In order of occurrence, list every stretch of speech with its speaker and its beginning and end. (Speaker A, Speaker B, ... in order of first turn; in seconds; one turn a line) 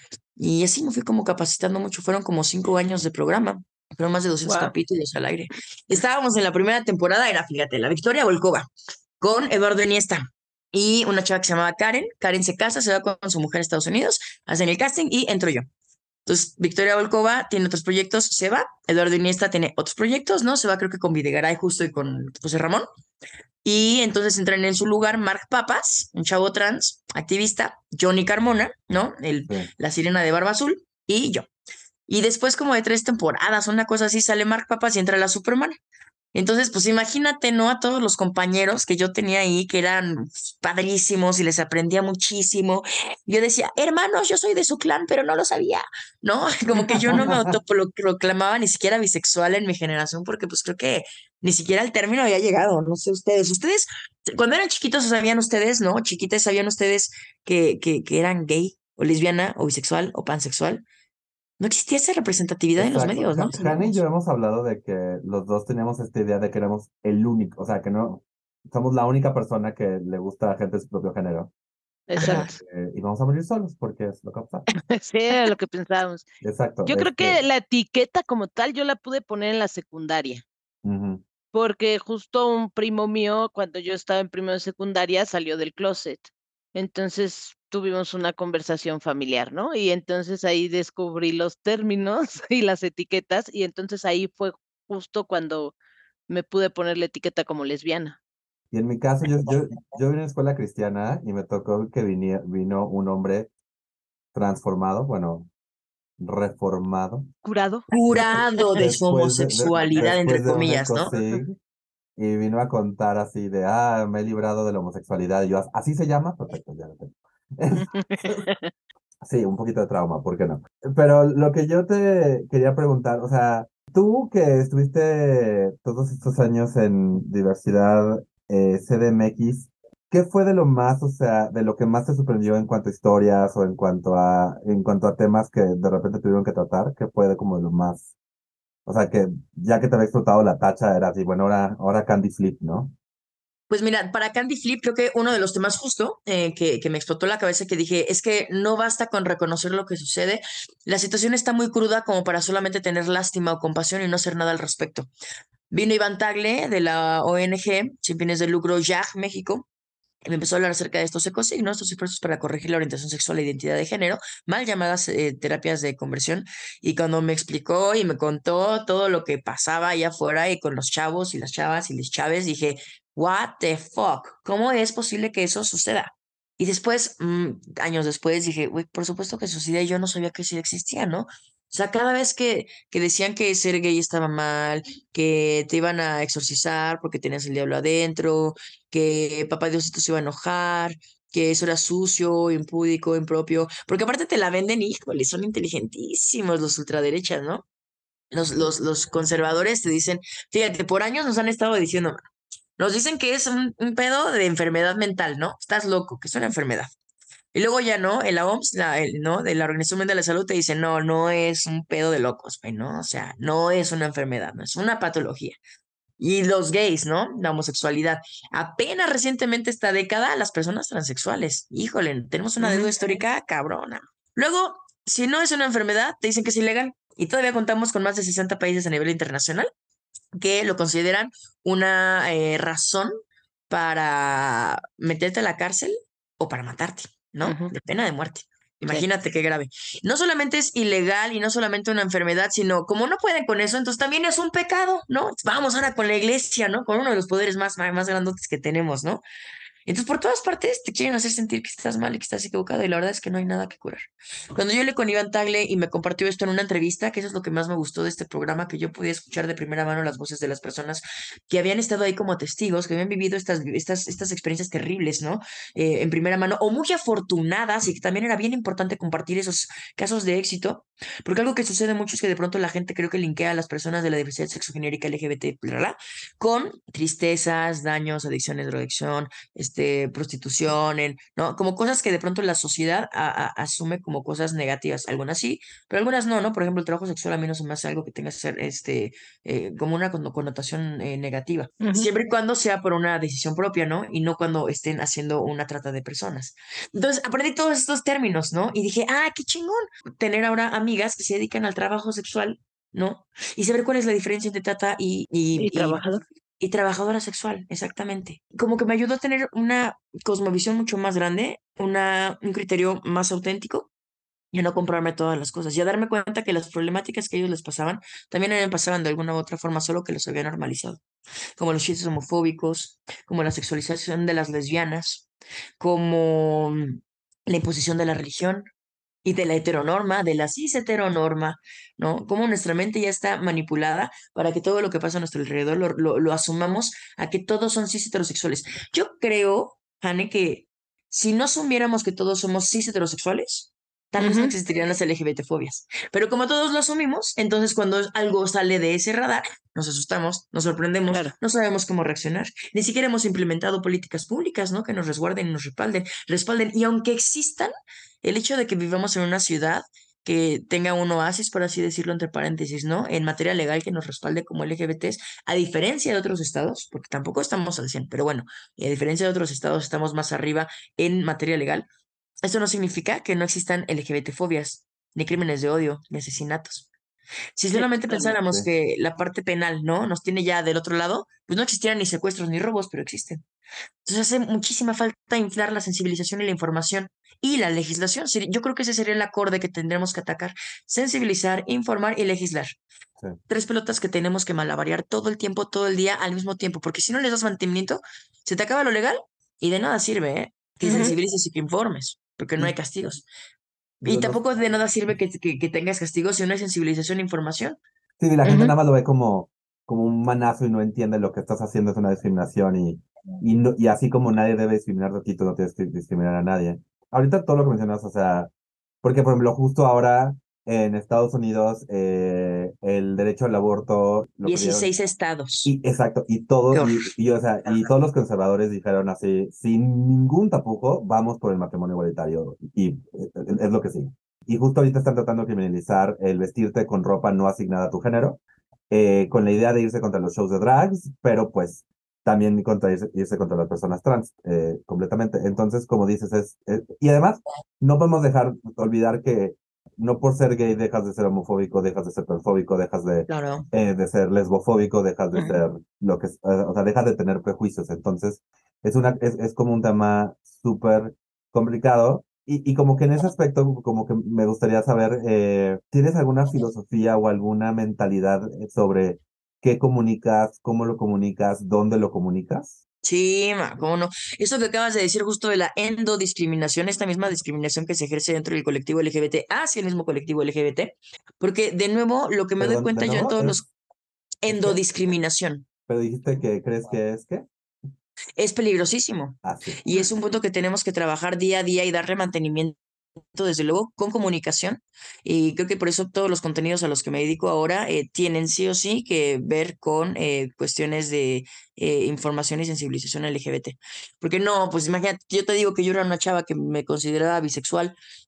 Speaker A: 0.4-8.7
Speaker B: 4.5-4.7
Speaker A: 9.2-15.7
Speaker A: 16.3-22.9
Speaker A: 23.6-31.5
Speaker A: 32.1-35.8
Speaker A: 36.4-60.8
Speaker C: 47.1-47.5
Speaker A: 61.6-64.0
Speaker C: 62.8-71.5
Speaker B: 72.1-72.5
Speaker A: 72.2-72.5
Speaker C: 72.2-74.7
Speaker B: 74.9-76.3
Speaker C: 76.4-77.4
Speaker B: 76.9-80.5
Speaker C: 80.8-81.2
Speaker B: 81.5-95.8
Speaker B: 96.3-98.2
Speaker C: 98.7-103.5
Speaker C: 104.4-105.5
Speaker C: 106.2-107.2
Speaker B: 107.4-107.9
Speaker A: 107.9-111.1
Speaker C: 108.1-111.6
Speaker B: 111.1-111.4
Speaker C: 112.2-117.1
Speaker B: 117.8-118.7
Speaker C: 119.3-138.1
Speaker C: 138.9-142.9
Speaker A: 143.7-155.1
Speaker A: 155.7-159.7
Speaker A: 160.2-197.7
Speaker A: 198.3-202.2
Speaker A: 202.8-206.9
Speaker A: 207.5-215.6
Speaker A: 216.2-229.7
Speaker B: 222.6-222.9
Speaker A: 230.3-233.1
Speaker A: 233.7-249.2
Speaker B: 237.4-237.7
Speaker A: 249.9-306.0
Speaker B: 291.8-292.1
Speaker B: 305.6-306.2
Speaker A: 306.6-313.9
Speaker A: 314.5-321.0
Speaker A: 321.6-325.3
Speaker A: 325.8-328.6
Speaker A: 329.2-371.9
Speaker B: 344.2-344.6
Speaker A: 372.4-376.9
Speaker A: 377.6-383.4
Speaker B: 377.8-378.3
Speaker C: 378.3-378.7
Speaker A: 384.1-392.8
Speaker A: 393.5-403.3
Speaker B: 400.9-401.1
Speaker A: 404.0-407.8
Speaker C: 404.1-404.8
Speaker C: 408.2-418.5
Speaker B: 408.4-408.8
Speaker C: 419.0-424.9
Speaker A: 424.4-425.7
Speaker C: 425.7-438.4
Speaker A: 426.7-427.1
Speaker C: 438.9-472.8
Speaker A: 453.3-453.6
Speaker A: 473.0-483.7
Speaker C: 482.6-483.6
Speaker A: 484.4-485.6
Speaker C: 484.5-484.8
Speaker C: 485.9-487.4
Speaker A: 488.4-492.8
Speaker C: 489.4-489.8
Speaker A: 493.4-508.0